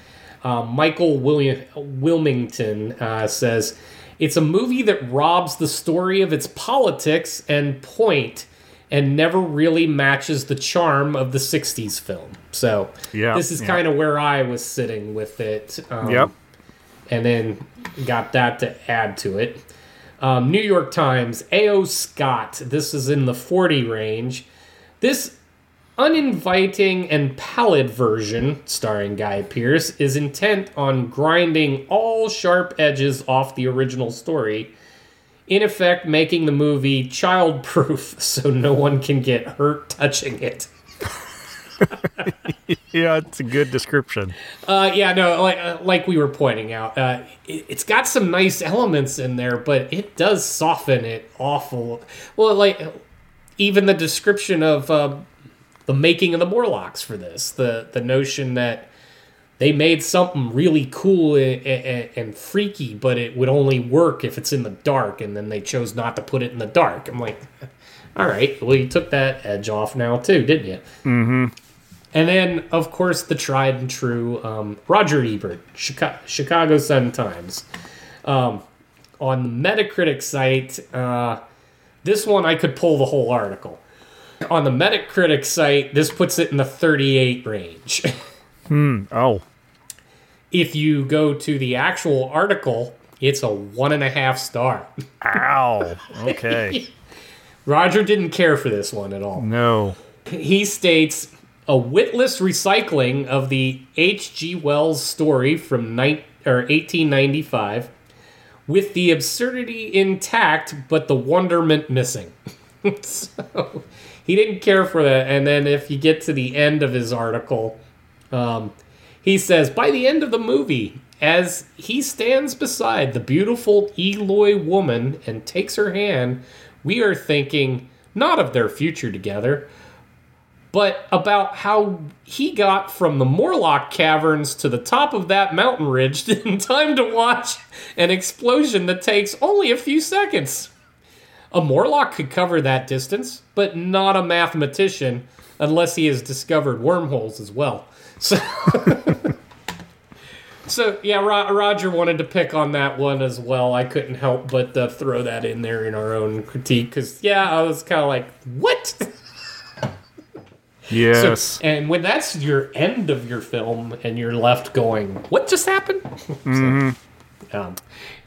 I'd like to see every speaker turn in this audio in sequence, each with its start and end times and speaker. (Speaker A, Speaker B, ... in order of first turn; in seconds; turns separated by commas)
Speaker A: 0.4-16.3, Speaker B: 13.1-13.8, Speaker B: 16.0-16.3, Speaker A: 17.1-19.7, Speaker A: 20.2-24.5, Speaker A: 25.0-25.4, Speaker A: 26.0-34.7, Speaker A: 35.5-40.7, Speaker B: 42.7-44.4, Speaker A: 44.6-53.0, Speaker A: 53.6-55.3, Speaker A: 55.9-58.9, Speaker A: 59.6-67.5, Speaker A: 68.2-70.8, Speaker B: 71.0-71.5, Speaker A: 72.1-77.7, Speaker A: 78.2-78.6, Speaker A: 79.2-81.4, Speaker A: 82.0-83.8, Speaker A: 84.5-88.1, Speaker B: 88.7-89.5, Speaker A: 90.5-94.9, Speaker B: 95.2-96.8, Speaker A: 96.3-96.9, Speaker A: 97.7-99.5, Speaker B: 99.4-100.0, Speaker A: 100.3-107.9, Speaker A: 108.7-117.8, Speaker A: 118.3-129.7, Speaker A: 130.7-140.7, Speaker A: 141.5-149.3, Speaker A: 150.7-159.1, Speaker B: 160.9-161.6, Speaker A: 161.1-166.8, Speaker B: 166.5-167.0, Speaker A: 167.5-167.8